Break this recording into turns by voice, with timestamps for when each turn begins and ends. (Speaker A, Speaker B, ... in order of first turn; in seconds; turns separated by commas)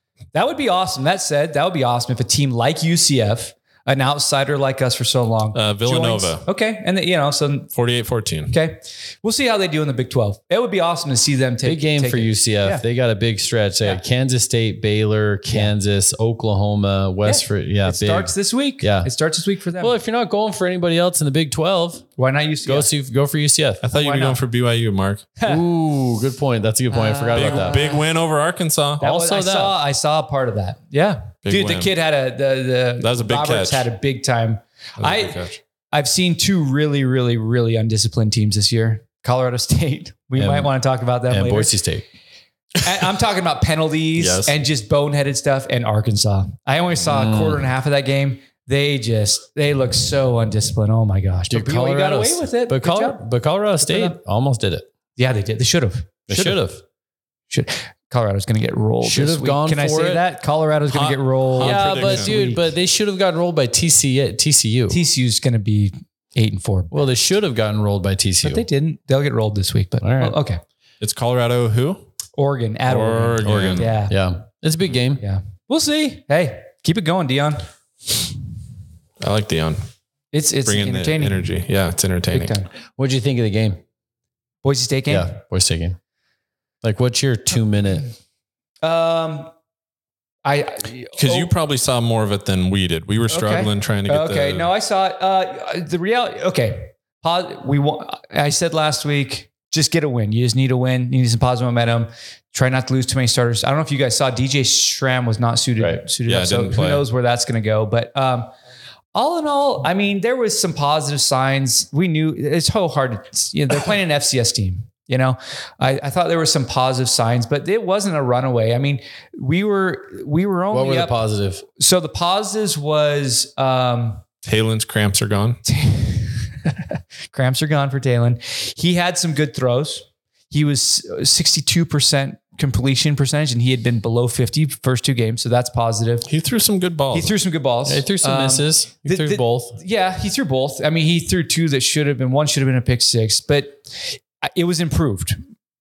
Speaker A: 0.3-7.7, Speaker B: 5.5-6.5, Speaker B: 7.7-8.6, Speaker A: 8.5-12.8, Speaker C: 11.6-19.1, Speaker A: 17.2-20.0, Speaker C: 19.8-22.1, Speaker A: 22.2-22.9, Speaker C: 22.6-23.8, Speaker B: 23.8-25.3, Speaker A: 23.9-24.4, Speaker C: 25.5-27.9, Speaker A: 26.9-28.1, Speaker B: 27.3-29.0, Speaker C: 29.0-29.8, Speaker A: 29.0-41.7, Speaker B: 31.4-31.9, Speaker B: 33.0-33.9, Speaker B: 35.0-35.6, Speaker C: 40.4-40.7, Speaker C: 41.3-42.0, Speaker A: 42.8-53.2, Speaker B: 44.2-44.5, Speaker C: 47.1-47.7, Speaker C: 51.5-54.9, Speaker A: 53.8-54.2, Speaker A: 55.2-56.6, Speaker C: 56.3-56.8, Speaker A: 57.5-62.6, Speaker C: 59.0-60.2, Speaker B: 60.9-62.5, Speaker C: 61.6-65.0, Speaker A: 64.9-66.9, Speaker C: 66.9-68.7, Speaker A: 68.4-70.6, Speaker C: 70.0-70.4, Speaker B: 71.0-72.1, Speaker A: 72.4-74.1, Speaker B: 72.9-73.9, Speaker C: 73.4-75.2, Speaker A: 75.2-77.7, Speaker B: 79.2-79.8, Speaker A: 80.3-81.5, Speaker B: 80.7-82.6, Speaker A: 82.3-82.7, Speaker C: 83.0-83.8, Speaker A: 84.6-85.3, Speaker C: 85.1-86.0, Speaker C: 86.8-88.1, Speaker A: 88.8-89.5, Speaker A: 90.5-91.5, Speaker B: 91.2-94.7, Speaker A: 93.3-108.5, Speaker B: 106.3-107.1, Speaker A: 109.1-124.2, Speaker C: 120.7-121.6, Speaker B: 124.5-125.6, Speaker A: 125.7-136.3, Speaker B: 136.3-137.4, Speaker A: 137.1-145.4, Speaker C: 137.9-139.8